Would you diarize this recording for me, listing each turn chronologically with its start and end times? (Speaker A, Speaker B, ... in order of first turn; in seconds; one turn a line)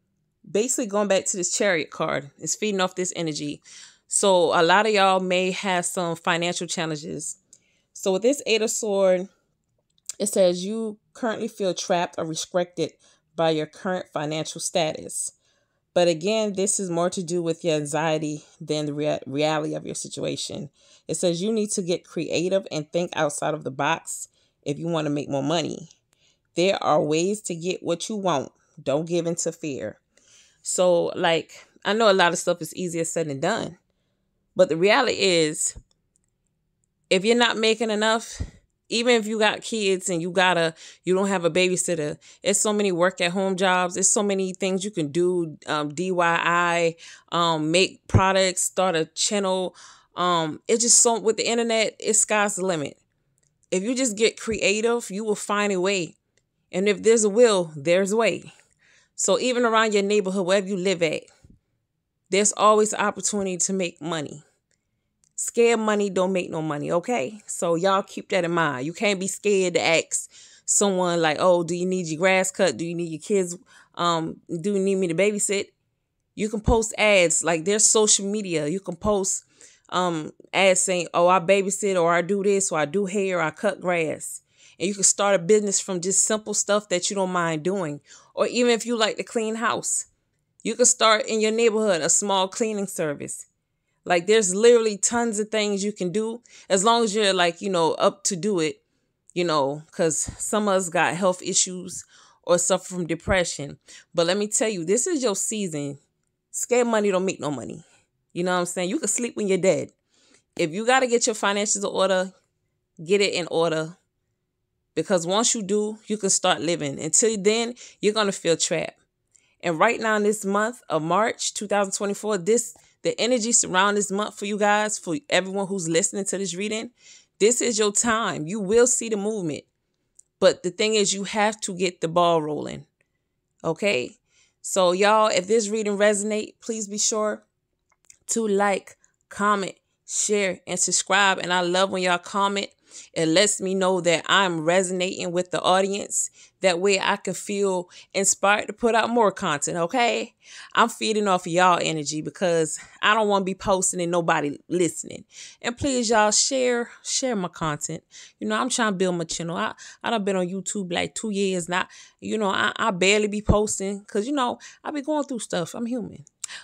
Speaker A: 0.5-7.4
Speaker A: 7.9-9.3
Speaker A: 10.2-15.3
Speaker A: 15.9-25.9
Speaker A: 26.5-30.0
Speaker A: 30.6-33.8
Speaker A: 34.5-35.7
Speaker A: 37.1-53.0
Speaker A: 53.7-56.2
Speaker A: 56.7-58.5
Speaker A: 59.2-61.3
Speaker A: 62.3-64.4
Speaker A: 65.3-75.7
Speaker A: 76.3-90.1
Speaker A: 90.6-93.5
Speaker A: 94.0-98.8
Speaker A: 99.3-106.0
Speaker A: 106.5-109.9
Speaker A: 110.6-112.3
Speaker A: 113.0-114.0
Speaker A: 114.9-119.0
Speaker A: 119.6-129.7
Speaker A: 130.4-132.9
Speaker A: 133.6-137.4
Speaker A: 138.3-166.3